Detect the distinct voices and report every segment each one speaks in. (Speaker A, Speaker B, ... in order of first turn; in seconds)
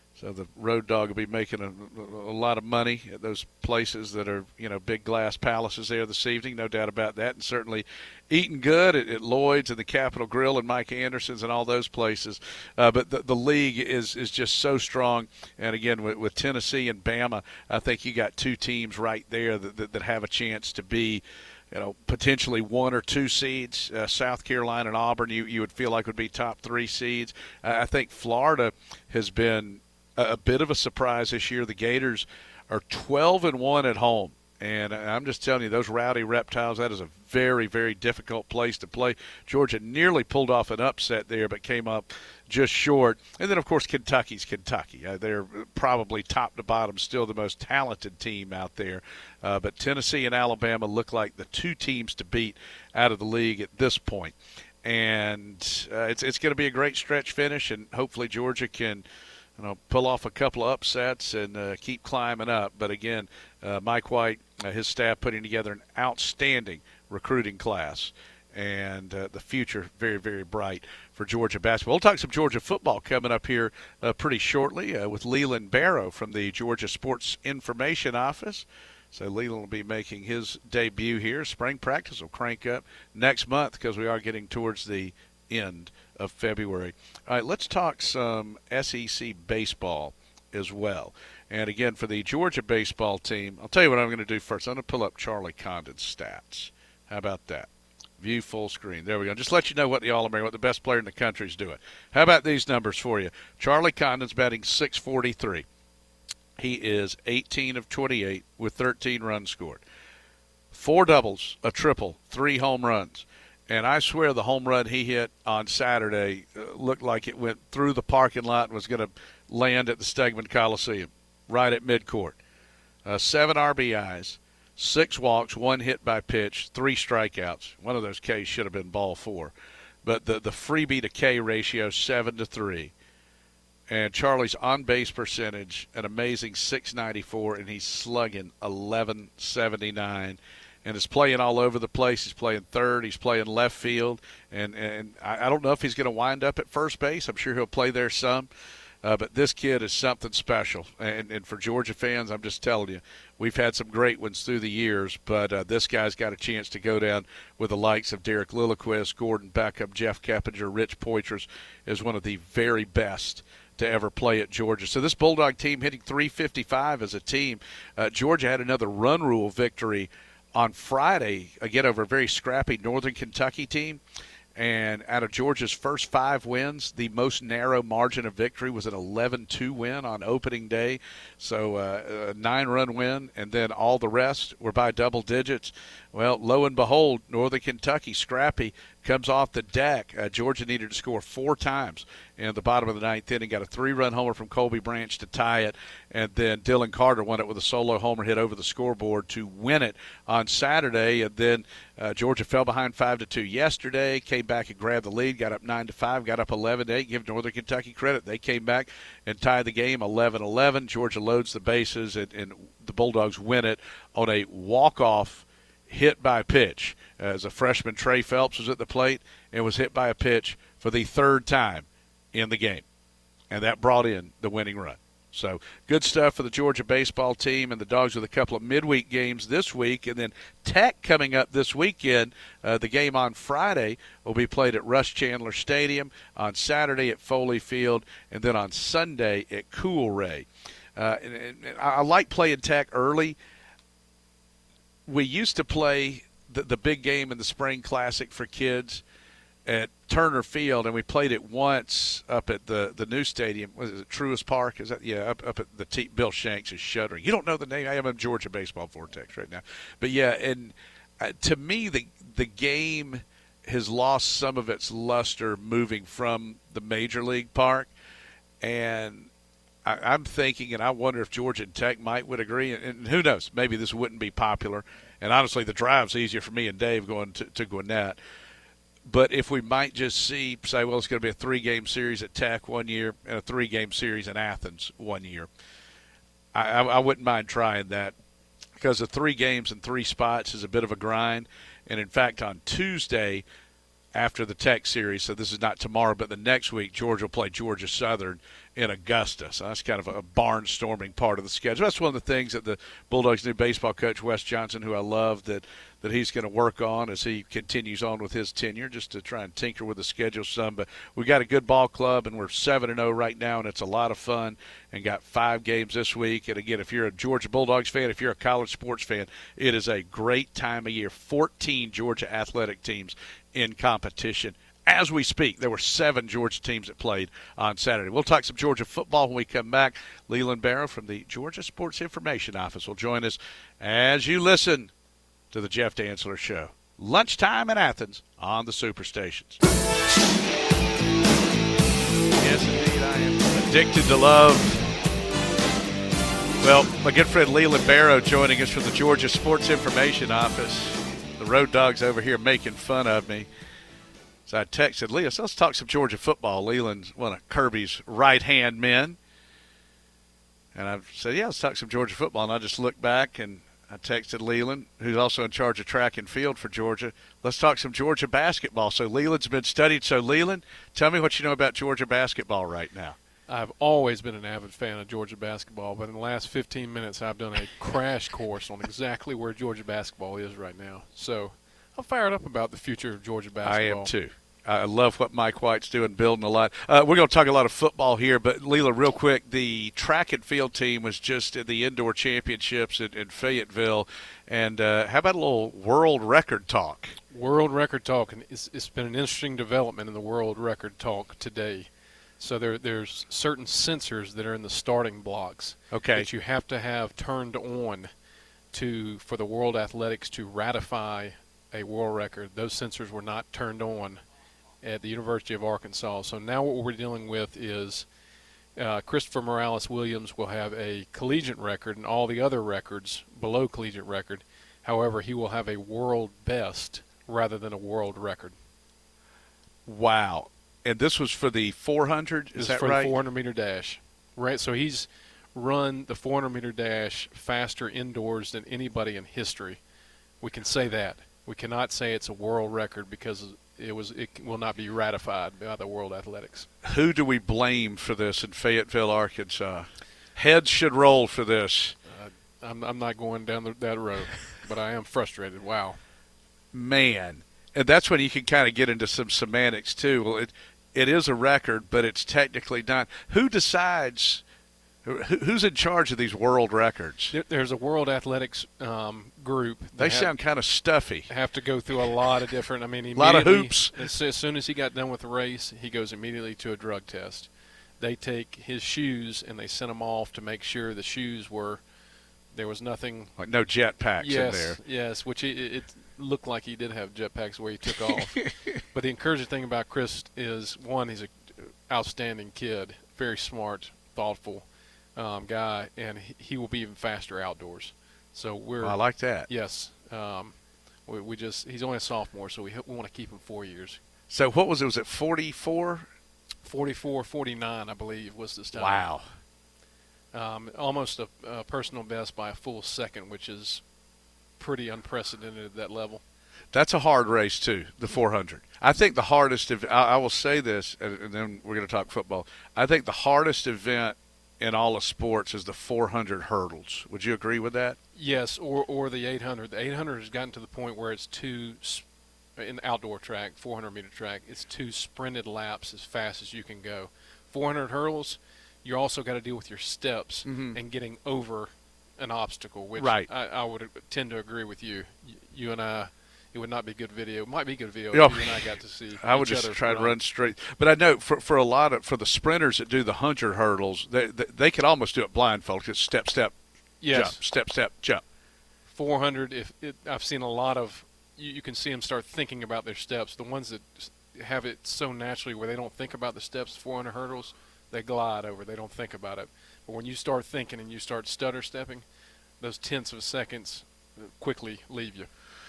Speaker A: 0.2-59.0, 59.6-105.7, 106.6-109.8, 110.7-122.4, 123.0-132.9, 133.9-148.5, 149.0-174.0, 174.6-222.8, 223.5-243.4, 245.1-249.0, 249.7-267.9, 268.6-269.3, 269.8-278.2, 279.1-285.5, 286.5-288.1, 288.8-293.4, 294.1-334.9, 335.5-339.6, 342.4-344.9, 346.6-353.5, 354.5-359.2, 360.7-373.2, 383.6-397.1, 405.9-406.3, 429.9-433.1, 446.8-451.9, 456.7-464.4, 465.0-467.3, 470.0-471.3, 473.1-474.0, 483.4-484.8, 498.8-499.5, 504.3-506.1, 508.7-509.2, 516.7-528.0, 540.5-540.8, 543.0-543.3, 548.1-548.6, 549.2-556.5, 557.1-558.2
Speaker B: 373.5-384.1, 397.3-408.1, 408.7-414.2, 414.8-418.1, 418.8-428.5, 432.6-439.8, 440.4-446.7, 452.1-456.0, 467.3-470.3, 471.3-481.8, 482.5-483.3, 484.2-500.5, 501.1-504.0, 506.6-509.1, 510.3-513.8, 514.6-516.2, 528.1-550.1, 557.0-557.4, 558.9-572.0, 572.6-575.3